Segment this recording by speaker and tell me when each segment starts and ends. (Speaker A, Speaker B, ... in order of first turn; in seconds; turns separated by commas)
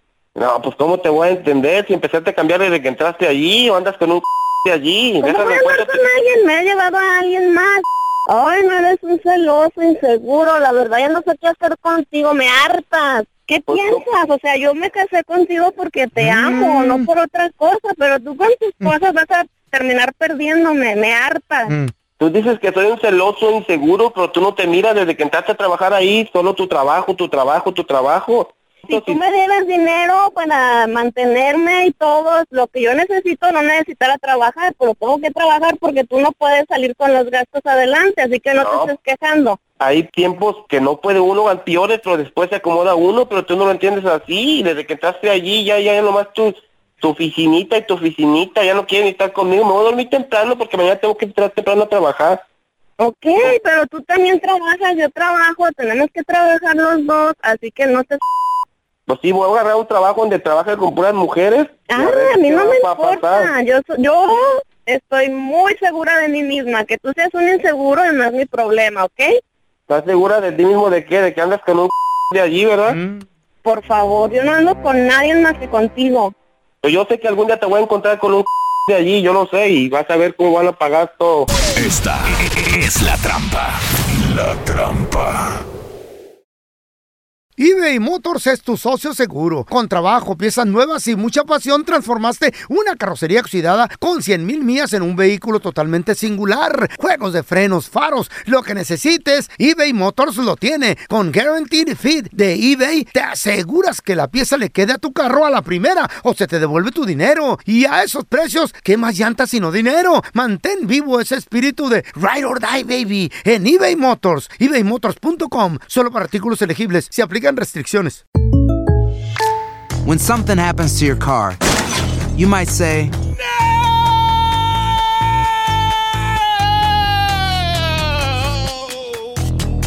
Speaker A: 0.4-6.0, Speaker B: 5.2-21.7, Speaker A: 13.7-14.0, Speaker C: 16.2-17.1, Speaker A: 22.2-29.2, Speaker B: 28.9-39.6, Speaker A: 38.6-38.9, Speaker A: 39.8-52.4, Speaker B: 53.0-58.2, Speaker A: 59.1-63.5, Speaker B: 61.9-69.4, Speaker A: 69.9-73.0, Speaker C: 72.9-73.2, Speaker B: 73.7-76.3, Speaker A: 76.8-81.5, Speaker D: 81.8-83.6, Speaker D: 84.5-85.1, Speaker C: 87.6-118.2, Speaker E: 120.0-121.6, Speaker E: 122.3-123.1